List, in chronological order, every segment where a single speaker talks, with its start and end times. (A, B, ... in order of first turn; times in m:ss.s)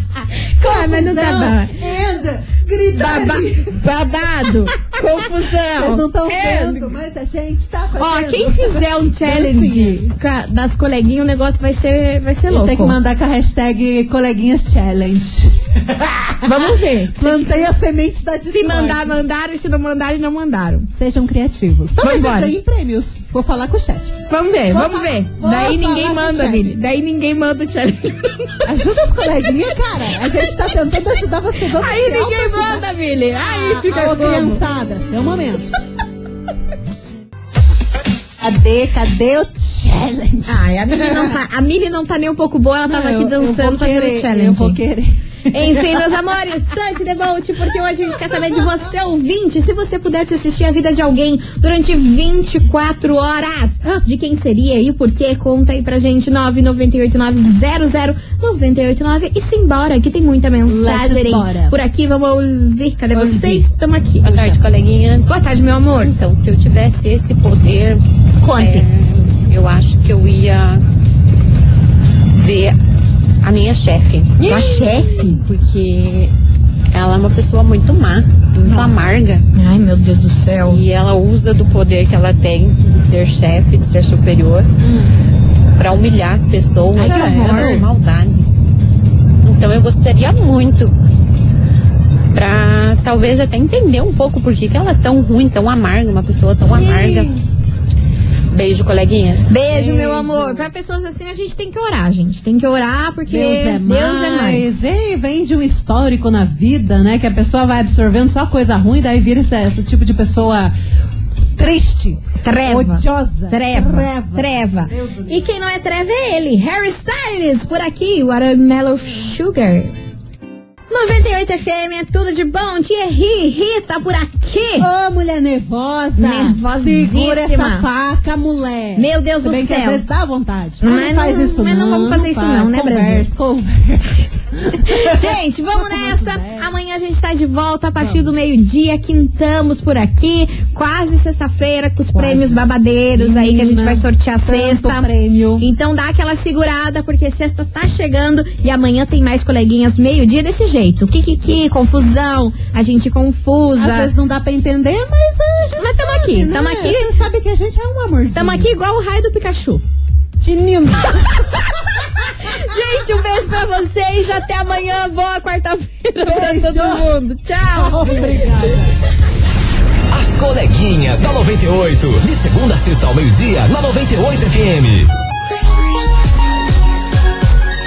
0:00.6-0:03.8 A
0:00.6-0:01.8 B
0:02.9-0:06.9 B
0:05.5-0:10.1 A
0:08.0-0:13.0 B
0:12.5-0:19.2 A
0:16.4-0:17.7 B
0:18.5-0:20.9 B
0:20.9-0:26.8 A
0:22.0-0:22.5 B
0:24.3-0:28.6 B
0:28.6-0:32.8 A
0:30.4-0:30.7 B
0:31.8-0:34.6 B
0:33.4-0:35.7 A
0:38.4-0:41.4 A
0:40.5-0:44.8 B
0:42.9-0:46.1 A
0:45.5-1:04.4 B
0:48.3-0:48.7 A
1:00.7-1:01.8 A
1:03.2-1:03.6 A
1:04.2-1:05.4 C
1:04.2-1:04.6 A
1:05.3-1:06.1 B
1:06.0-1:08.0 C
1:08.4-1:08.9 B
1:08.5-1:10.8 C
1:12.4-1:12.8 C
1:13.4-1:14.4 C
1:14.4-1:15.4 A
1:14.4-1:15.4 B
1:15.4-1:16.3 C
1:16.9-1:19.4 C
1:18.7-1:18.9 A
1:19.5-1:20.8 B
1:20.6-1:24.7 C
1:25.8-1:28.5 C
1:27.0-1:27.8 B
1:27.0-1:27.8 A
1:29.4-1:30.9 C
1:32.3-1:37.3 C
1:36.7-1:37.4 A
1:38.5-1:39.5 C
1:39.5-1:44.7 B
1:39.7-1:40.7 A
1:43.3-1:50.7 A
1:51.6-1:55.4 A
1:52.4-1:59.9 B
2:00.9-2:04.9 B
2:04.8-2:16.7 A
2:06.2-2:07.9 B
2:09.0-2:10.0 B
2:10.8-2:13.3 B
2:14.8-2:34.1 B
2:18.0-2:18.3 A
2:22.1-2:25.7 A
2:33.8-2:38.7 A
2:35.8-2:37.1 B
2:38.4-2:39.8 B
2:40.4-2:41.5 A
2:42.4-2:48.6 B
2:46.2-2:47.1 A
2:47.6-2:48.9 A
2:50.1-2:55.1 D